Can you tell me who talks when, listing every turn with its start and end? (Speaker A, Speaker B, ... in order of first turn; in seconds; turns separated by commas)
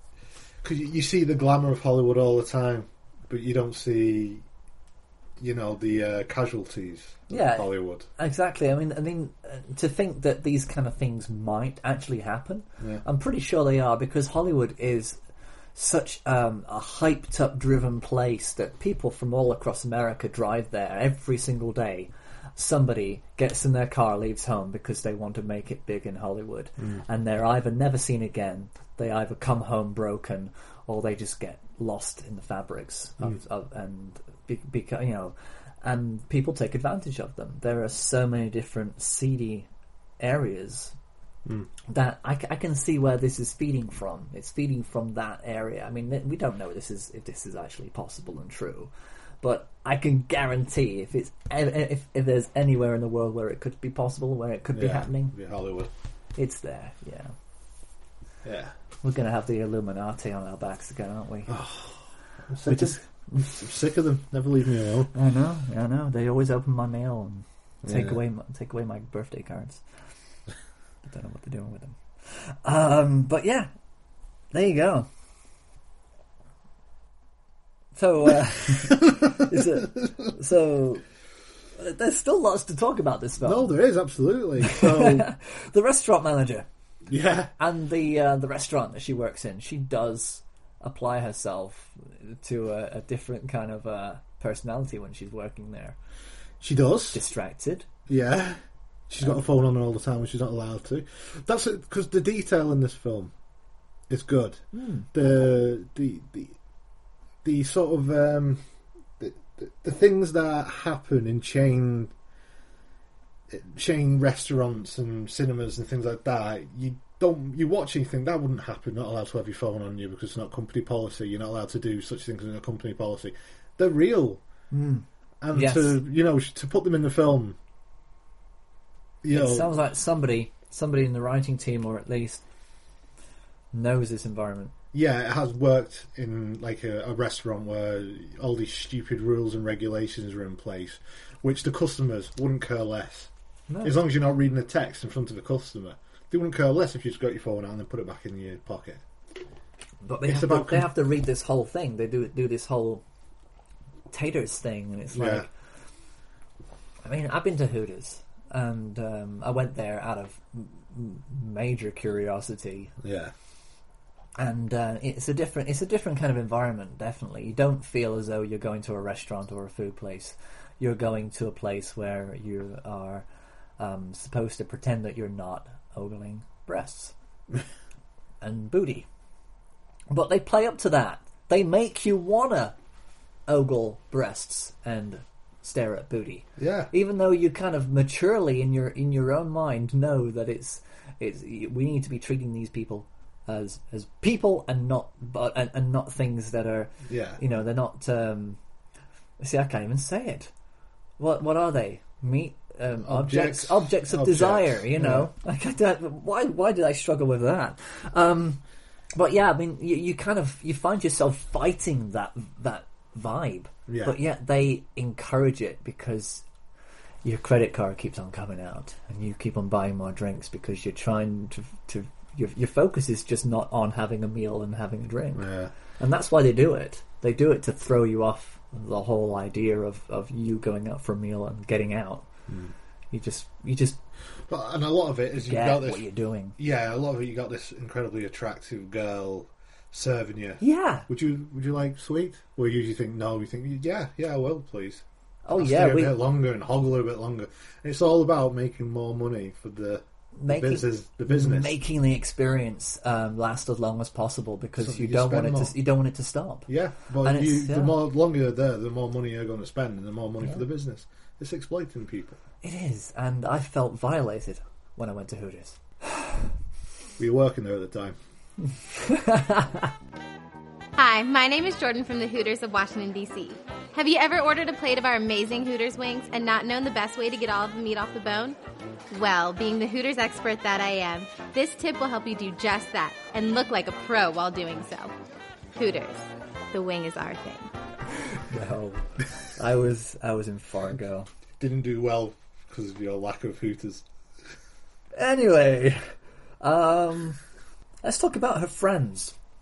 Speaker A: 0.6-4.4, Speaker A: 5.4-8.1, Speaker B: 7.3-15.2, Speaker B: 15.7-39.7, Speaker B: 40.2-40.9, Speaker B: 41.9-48.9, Speaker B: 49.4-55.3, Speaker A: 54.7-55.9, Speaker B: 56.4-57.3, Speaker A: 58.4-58.7, Speaker B: 59.0-61.5, Speaker A: 61.5-65.1, Speaker B: 62.6-63.6, Speaker B: 65.1-69.8, Speaker A: 67.8-68.2, Speaker B: 71.0-73.7, Speaker B: 74.5-75.1, Speaker B: 77.9-81.0, Speaker B: 81.8-83.8, Speaker A: 83.4-85.3, Speaker B: 84.6-86.7, Speaker A: 87.1-87.5, Speaker B: 87.6-96.0, Speaker A: 96.6-97.2, Speaker B: 97.1-97.8, Speaker A: 98.1-103.3, Speaker A: 104.1-104.6, Speaker B: 104.7-105.1, Speaker A: 105.1-106.5, Speaker A: 107.4-108.6, Speaker A: 109.2-112.1, Speaker A: 113.5-124.4, Speaker B: 124.7-126.0, Speaker A: 125.4-127.6, Speaker A: 129.2-129.7, Speaker B: 129.3-132.4, Speaker B: 133.7-134.7, Speaker A: 134.9-143.3, Speaker B: 143.7-144.0, Speaker A: 143.8-149.0, Speaker B: 150.0-153.0, Speaker A: 150.2-150.9, Speaker B: 154.1-155.5, Speaker A: 155.1-155.5, Speaker B: 157.0-162.9, Speaker A: 163.0-163.3, Speaker B: 164.4-173.2, Speaker B: 173.8-177.1, Speaker B: 178.4-179.1, Speaker B: 180.1-182.7, Speaker B: 183.5-198.6, Speaker A: 186.6-186.9, Speaker A: 197.1-197.4, Speaker B: 199.4-200.5, Speaker B: 201.2-208.6, Speaker A: 203.0-205.3, Speaker B: 209.1-216.4, Speaker A: 213.9-214.2, Speaker B: 217.2-225.5, Speaker A: 225.3-225.7, Speaker B: 226.0-232.2, Speaker B: 233.1-234.0, Speaker A: 234.5-236.0, Speaker B: 235.4-236.6, Speaker A: 236.6-251.8, Speaker B: 240.6-241.1, Speaker B: 245.4-246.2, Speaker B: 250.3-256.7, Speaker A: 254.8-255.7, Speaker A: 256.7-262.4, Speaker B: 257.2-258.0, Speaker B: 262.6-266.3, Speaker A: 267.2-268.2, Speaker B: 268.9-269.9, Speaker C: 271.0-278.6, Speaker C: 279.1-285.1, Speaker C: 285.7-287.7, Speaker B: 288.4-291.3, Speaker A: 291.6-294.0, Speaker B: 295.1-296.1, Speaker B: 296.6-297.4, Speaker B: 298.0-299.3